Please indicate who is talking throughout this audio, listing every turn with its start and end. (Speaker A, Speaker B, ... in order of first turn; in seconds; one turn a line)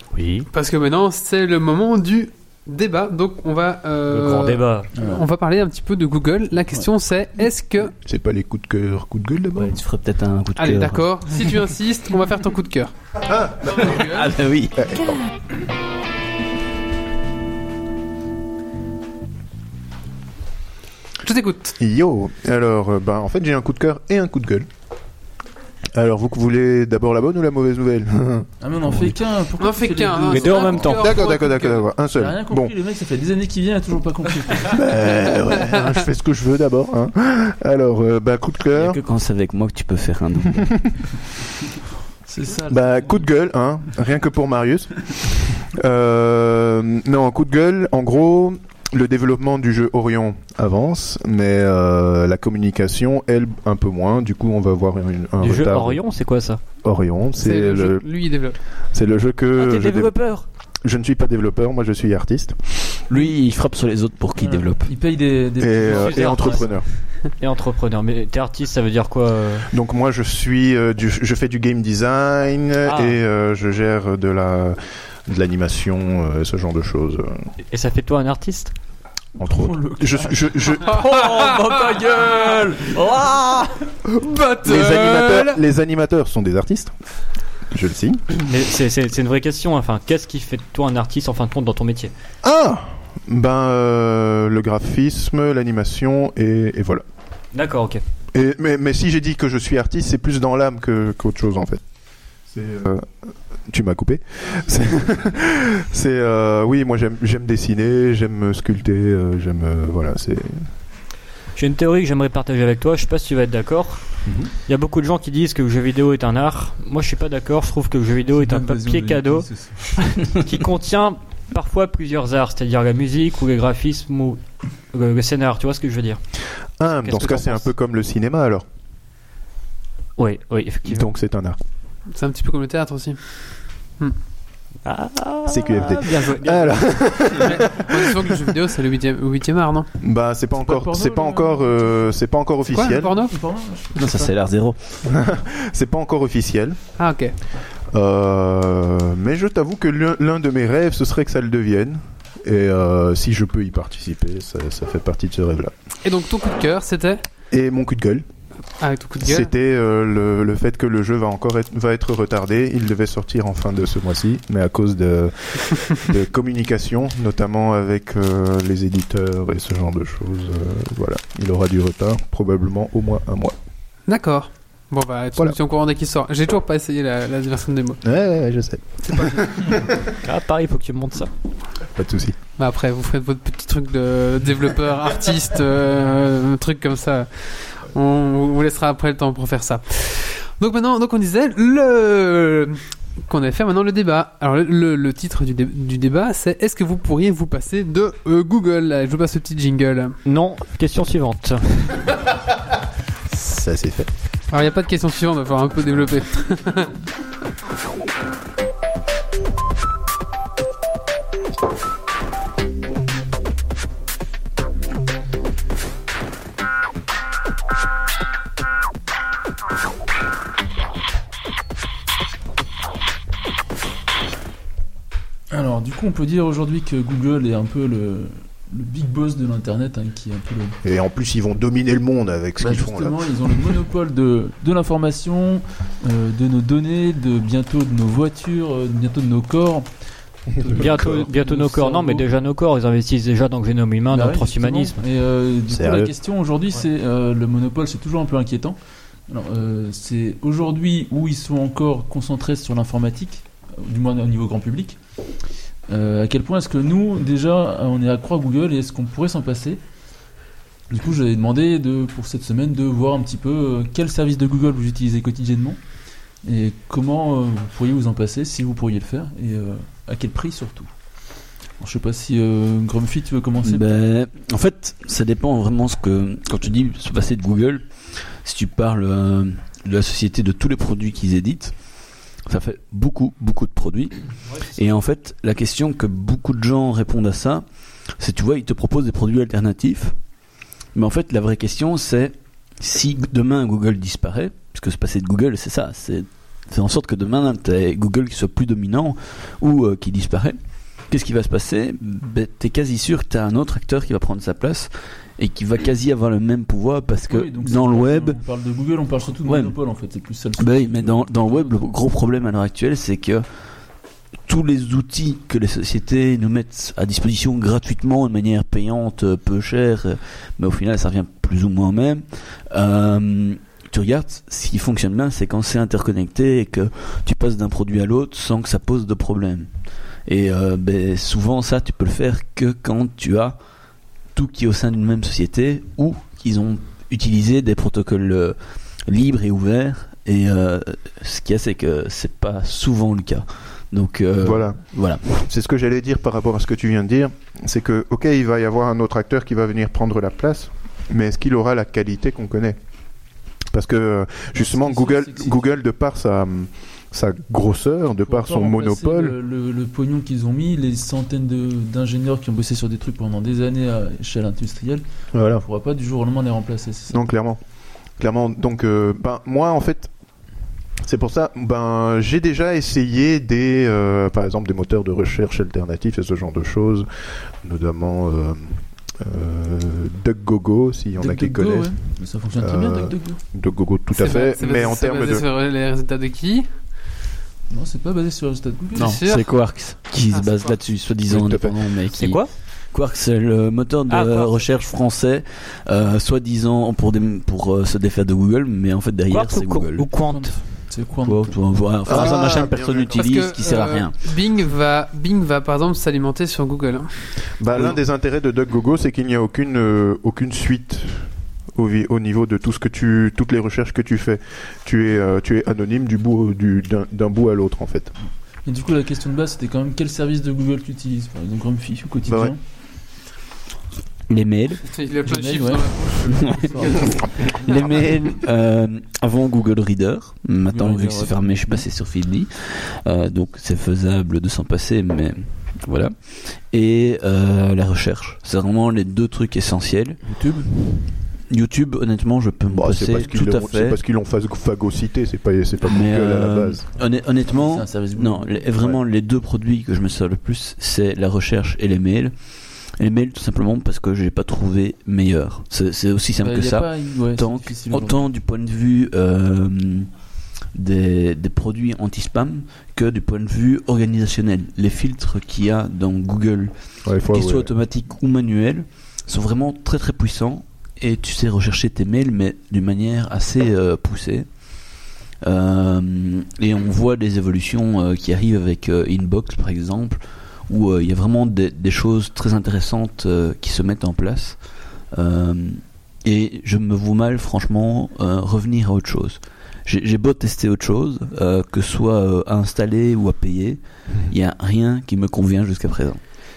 Speaker A: 0.1-0.5
Speaker B: 0.5-7.9
Speaker A: 4.1-4.9
Speaker C: 4.9-5.2
Speaker D: 8.0-9.8
Speaker E: 9.5-11.1
Speaker B: 10.6-12.9
Speaker D: 13.2-14.0
Speaker E: 13.8-14.9
Speaker D: 14.8-15.2
Speaker B: 21.2-21.8
Speaker D: 21.8-24.7
Speaker D: 25.9-29.1
Speaker C: 28.6-31.0
Speaker B: 29.6-31.8
Speaker A: 30.6-31.0
Speaker D: 30.9-32.7
Speaker C: 32.1-34.8
Speaker D: 34.7-39.0
Speaker E: 38.7-40.9
Speaker C: 42.2-43.2
Speaker D: 42.7-56.0
Speaker A: 55.4-56.6
Speaker D: 56.8-58.1
Speaker B: 57.4-58.6
Speaker D: 58.9-60.1
Speaker A: 59.5-60.5
Speaker D: 60.8-63.0
Speaker E: 63.1-64.9
Speaker C: 64.4-66.7
Speaker D: 65.6-66.8
Speaker A: 65.8-69.7
Speaker D: 69.7-77.5
Speaker A: 72.8-73.2
Speaker A: 77.7-78.7
Speaker D: 79.4-81.1
Speaker C: 79.4-83.7
Speaker B: 84.2-85.6
Speaker D: 84.6-86.9
Speaker D: 87.7-88.2
Speaker A: 88.4-92.1
Speaker D: 92.4-97.0
Speaker A: 97.5-98.0
Speaker D: 98.3-101.8
Speaker D: 102.5-103.1
Speaker D: 103.7-110.7
Speaker A: 111.5-126.2
Speaker C: 118.3-120.1
Speaker D: 126.8-128.6
Speaker A: 127.0-127.7
Speaker A: 130.2-131.1
Speaker D: 130.8-131.6
Speaker B: 132.1-133.4
Speaker A: 134.8-137.6
Speaker D: 135.4-138.0
Speaker B: 137.4-139.9
Speaker D: 140.0-143.1
Speaker C: 140.6-142.1
Speaker B: 142.7-143.3
Speaker C: 142.8-144.3
Speaker E: 143.9-145.0
Speaker D: 145.0-146.8
Speaker B: 147.0-147.3
Speaker D: 147.9-155.7
Speaker B: 156.0-157.2
Speaker D: 157.5-158.2
Speaker B: 158.8-159.5
Speaker D: 159.2-173.6
Speaker B: 174.1-178.0
Speaker D: 178.0-179.7
Speaker A: 180.1-181.3
Speaker D: 181.9-182.3
Speaker B: 182.6-200.2
Speaker A: 200.2-202.1
Speaker D: 203.3-204.1
Speaker B: 204.5-206.9
Speaker C: 225.5-230.8
Speaker D: 230.8-233.2
Speaker C: 232.6-239.9
Speaker C: 240.6-242.2
Speaker A: 240.7-245.0
Speaker D: 240.7-241.1
Speaker C: 244.1-255.0
Speaker D: 245.7-246.1
Speaker C: 255.9-259.8
Speaker C: 260.9-265.8
Speaker C: 266.4-270.9
Speaker C: 271.8-273.9
Speaker E: 273.6-281.7
Speaker E: 282.4-284.2
Speaker E: 284.7-287.6
Speaker E: 288.2-290.1
Speaker E: 290.9-300.6
Speaker E: 301.1-308.4
Speaker C: 307.3-311.9
Speaker E: 309.4-309.8
Speaker E: 310.6-313.4
Speaker E: 314.4-329.7
Speaker E: 330.2-333.6
Speaker E: 334.3-345.4
Speaker D: 344.4-352.8
Speaker D: 353.7-359.3
Speaker C: 354.5-355.7
Speaker C: 358.2-367.2
Speaker D: 365.3-365.6
Speaker D: 367.1-367.6
Speaker D: 368.2-370.1
Speaker D: 371.0-377.1
Speaker D: 377.6-382.0
Speaker C: 381.2-383.4
Speaker D: 382.6-385.4
Speaker B: 384.1-386.7
Speaker C: 387.7-389.2
Speaker B: 388.9-389.4
Speaker E: 389.0-400.1
Speaker B: 390.3-390.8
Speaker D: 391.3-391.8
Speaker A: 392.1-392.5
Speaker A: 394.1-394.6
Speaker A: 399.3-400.8
Speaker C: 400.2-401.8
Speaker E: 401.2-404.1
Speaker D: 402.1-403.3
Speaker B: 402.2-407.1
Speaker D: 407.6-418.1
Speaker C: 418.6-422.6
Speaker D: 422.2-422.5
Speaker E: 424.3-424.8
Speaker B: 424.9-426.7
Speaker C: 425.2-427.6
Speaker E: 426.4-436.1
Speaker C: 430.7-431.8
Speaker E: 436.7-440.2
Speaker C: 440.2-440.7
Speaker E: 441.3-444.0
Speaker D: 442.7-446.9
Speaker E: 445.8-452.3
Speaker C: 447.4-448.9
Speaker E: 453.0-460.1
Speaker C: 456.4-458.2
Speaker E: 460.7-466.7
Speaker D: 467.0-467.7
Speaker E: 467.3-474.5
Speaker E: 475.4-484.6
Speaker E: 485.1-496.2